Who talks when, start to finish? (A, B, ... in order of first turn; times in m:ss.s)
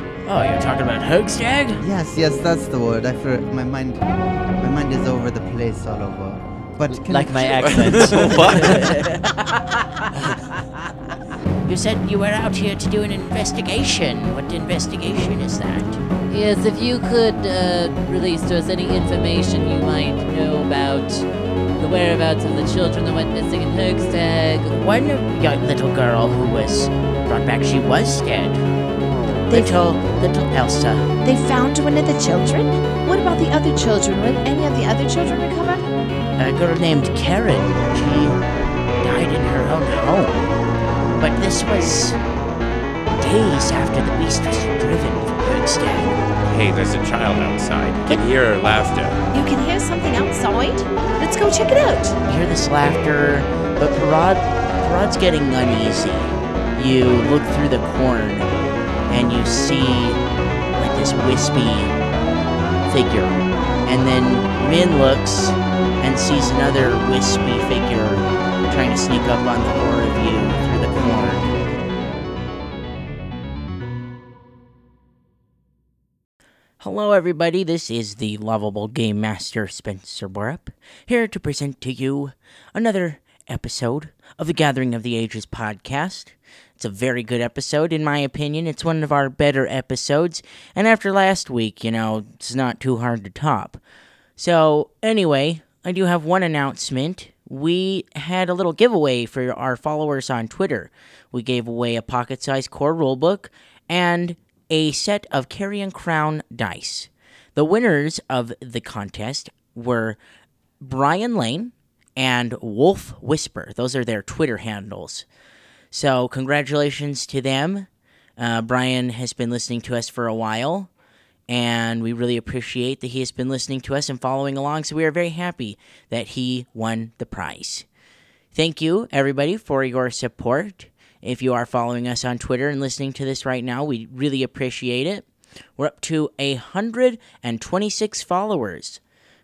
0:00.3-0:01.8 A
0:01.8-0:08.1 B
0:06.9-0:09.2 C
0:07.6-0:09.1 D
0:11.7-0:16.0 A
0:16.3-0:21.2 C
0:21.8-0:24.7 C
0:24.7-0:28.6 A
0:29.5-0:31.1 A
0:29.5-0:29.8 E
0:31.2-0:35.8 E
0:36.4-0:38.4 A
0:39.0-0:40.4 A
0:41.2-0:42.2 A
0:43.2-0:46.1 A
0:46.4-0:49.2 D
0:49.3-0:52.2 E
0:52.2-0:58.5 A
0:59.1-1:00.2 A
1:00.7-1:01.9 A
1:02.9-1:11.6 A
1:16.8-1:33.8 A
1:34.4-1:50.2 A
1:50.8-1:55.2 A
1:55.9-2:00.9 A
2:01.5-2:07.8 A
2:08.5-2:15.2 A
2:15.8-2:19.0 A